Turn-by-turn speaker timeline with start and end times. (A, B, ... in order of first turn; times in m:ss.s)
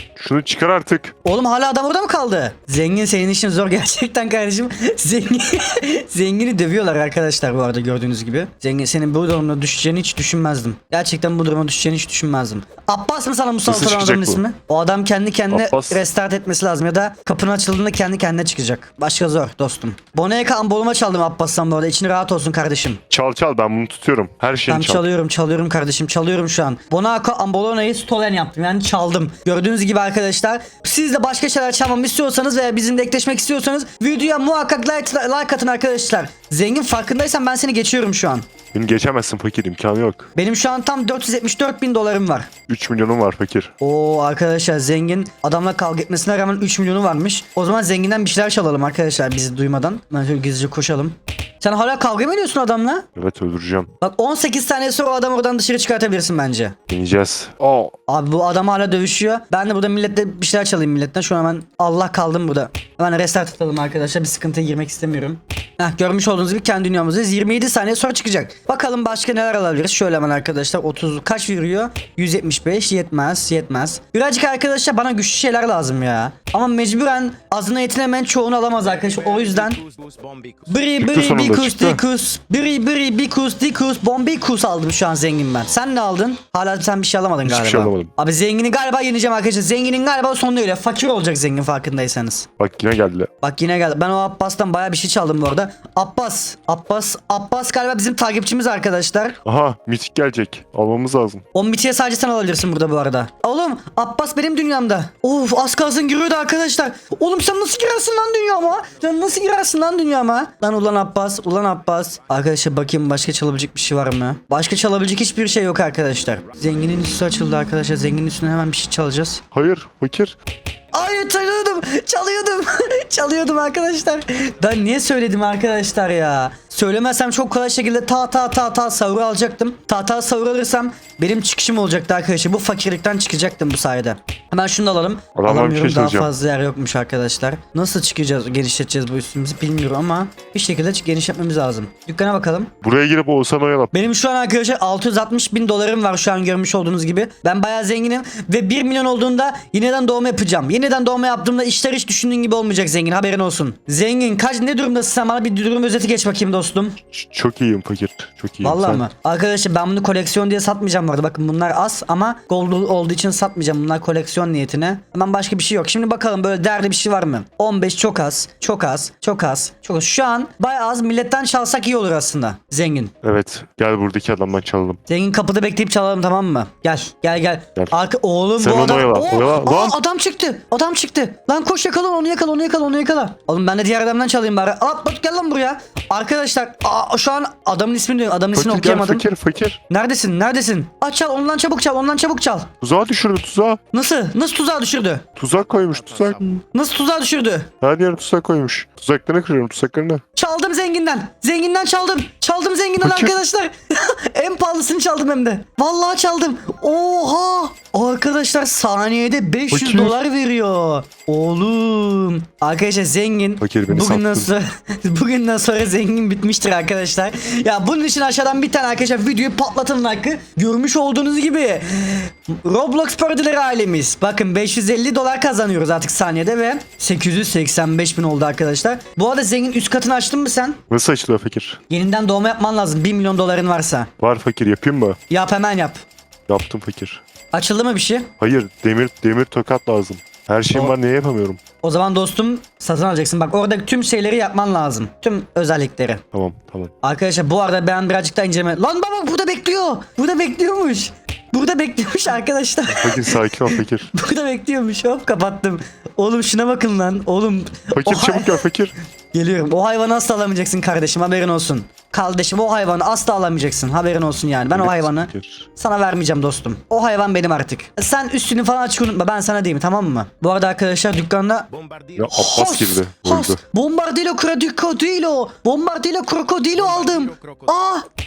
0:00.2-0:01.1 A
0:01.2-0:23.0 B
0:13.7-0:14.4 A
0:15.5-0:16.0 A
0:23.1-0:25.0 A
0:24.7-0:38.4 B
0:38.7-0:40.3 A
0:40.4-0:42.5 B
0:42.7-0:43.7 A
0:43.8-0:53.1 B
0:53.2-0:53.9 A
0:54.0-0:56.8 B
0:56.9-0:57.9 A
0:58.1-1:19.8 B
1:20.7-1:32.5 B
1:21.0-1:22.0 A
1:27.4-1:28.1 A
1:32.6-1:33.3 A
1:33.4-1:39.4 B
1:39.4-1:41.4 A
1:41.5-1:59.4 B
1:59.5-2:00.4 A
2:00.9-2:22.7 B
2:15.4-2:16.3 A
2:22.8-2:23.9 A
2:23.9-2:37.0 B
2:37.1-2:39.0 A
2:38.6-2:53.1 B
2:53.2-2:55.0 A
2:55.1-3:09.2 B
2:58.6-3:00.0 A
3:08.5-3:09.8 A
3:09.9-3:12.7 B
3:12.8-3:13.8 A
3:13.9-3:15.2 B
3:15.4-3:16.4 A
3:16.6-3:17.7 B
3:17.8-3:20.2 A
3:20.4-3:50.8 B
3:23.0-3:23.4 A
3:29.7-3:30.2 A
3:33.6-3:34.5 A
3:50.9-3:51.8 A
3:51.9-3:54.1 B
3:54.2-3:55.2 A
3:55.3-3:56.0 B
3:56.5-3:57.2 A
3:57.5-3:58.3 B
3:58.4-4:01.6 A
4:01.8-4:06.2 B
4:06.3-4:06.9 A
4:07.0-4:18.6 B
4:12.9-4:14.1 A
4:17.9-4:18.9 A
4:19.3-4:31.7 B
4:24.7-4:25.7 A
4:32.2-4:33.6 A
4:32.3-4:38.0 B